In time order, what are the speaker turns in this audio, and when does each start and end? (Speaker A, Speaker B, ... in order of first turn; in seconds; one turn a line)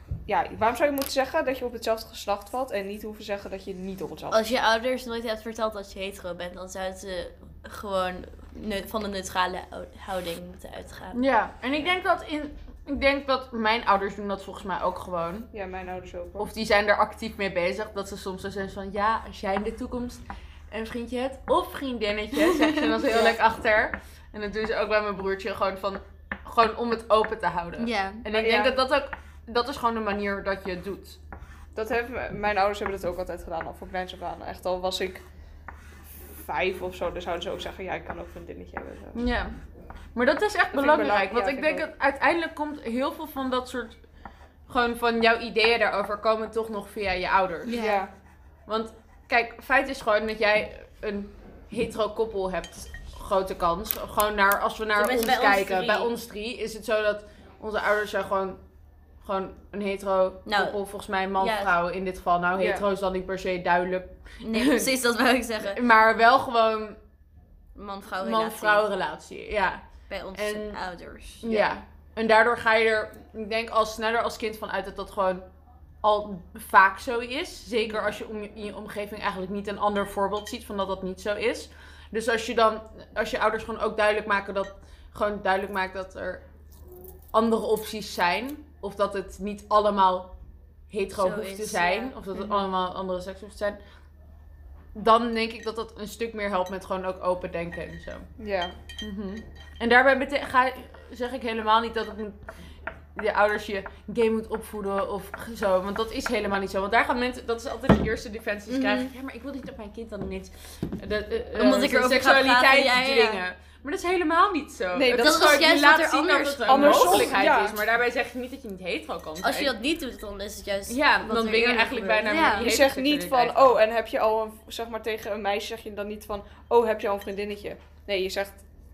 Speaker A: 0.3-4.5
Speaker B: 4.3-11.2
Speaker C: 11.1-15.5
Speaker A: 15.5-16.5
Speaker C: 16.4-31.2
Speaker B: 22.4-22.9
Speaker A: 23.1-23.4
Speaker B: 27.8-28.2
Speaker A: 28.3-28.8
Speaker A: 31.7-35.2
Speaker A: 36.4-39.2
Speaker C: 39.1-39.5
Speaker C: 40.1-44.0
Speaker A: 40.7-41.9
Speaker C: 44.7-47.9
Speaker B: 47.6-48.0
Speaker A: 47.7-48.1
Speaker C: 48.7-58.6
Speaker B: 55.0-56.1
Speaker C: 59.2-64.9
Speaker B: 60.5-60.8
Speaker B: 61.4-61.7
Speaker A: 62.5-62.8
Speaker B: 64.4-65.8
Speaker C: 65.6-67.0
Speaker B: 67.7-68.8
Speaker C: 68.2-70.8
Speaker B: 70.1-71.7
Speaker C: 71.4-75.5
Speaker C: 76.0-86.4
Speaker C: 87.3-90.3
Speaker C: 90.9-93.8
Speaker B: 91.2-92.1
Speaker A: 92.3-92.7
Speaker C: 94.9-98.3
Speaker A: 98.4-98.7
Speaker C: 99.0-102.4
Speaker C: 103.1-119.7
Speaker B: 108.7-109.1
Speaker B: 111.5-113.4
Speaker A: 114.9-115.6
Speaker B: 115.1-117.3
Speaker A: 116.7-117.8
Speaker B: 119.4-122.7
Speaker C: 120.9-123.8
Speaker A: 122.5-128.6